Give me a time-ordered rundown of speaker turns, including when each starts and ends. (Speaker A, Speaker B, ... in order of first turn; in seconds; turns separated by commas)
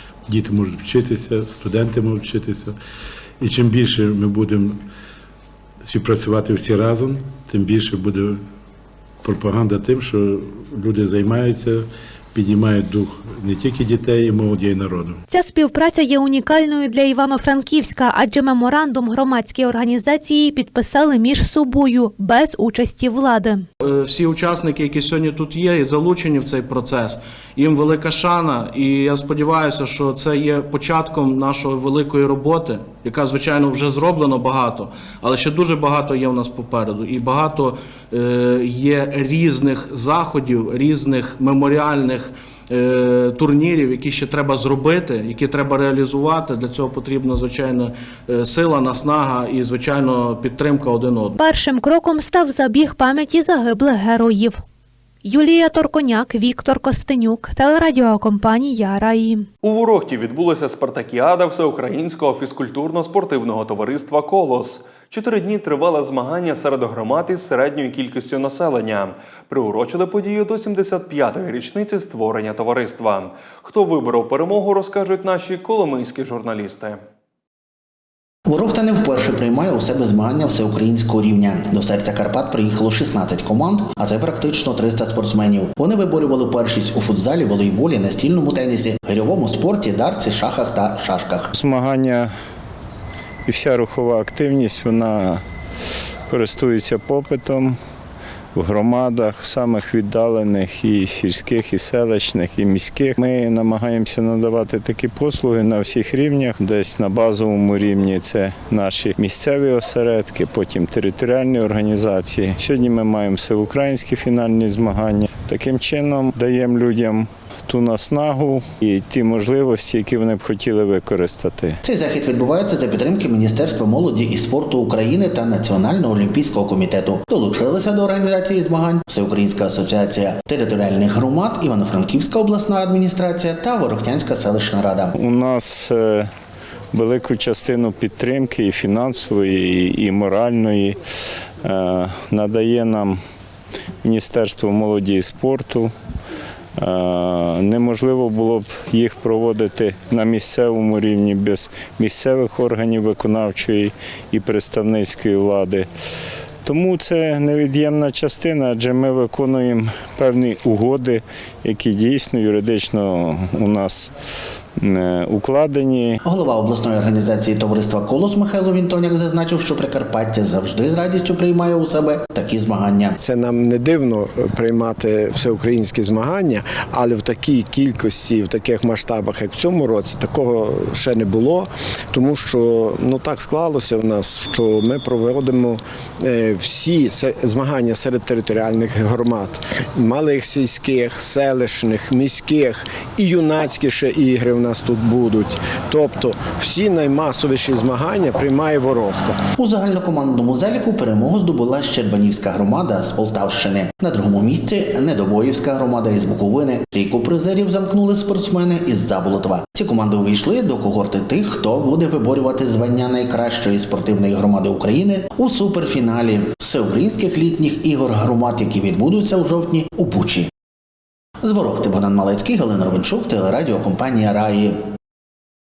Speaker A: 0.3-2.8, Speaker A: 3.4-4.8, Speaker A: 5.8-8.4, Speaker A: 9.2-15.2, Speaker B: 15.3-23.6, Speaker C: 23.9-51.4, Speaker B: 51.4-54.6, Speaker B: 55.2-59.5, Speaker D: 59.6-77.0, Speaker E: 78.5-91.5, Speaker F: 91.5-92.3, Speaker F: 93.5-95.4, Speaker F: 96.3-97.8, Speaker F: 98.5-121.8, Speaker E: 121.8-135.1, Speaker F: 135.2-136.3, Speaker F: 136.9-141.0, Speaker F: 141.6-143.2, Speaker F: 144.0-145.9, Speaker F: 146.8-155.9, Speaker F: 156.7-164.1, Speaker F: 164.8-166.2, Speaker E: 166.2-173.2, Speaker G: 173.3-199.4, Speaker E: 199.6-220.5, Speaker E: 221.4-224.8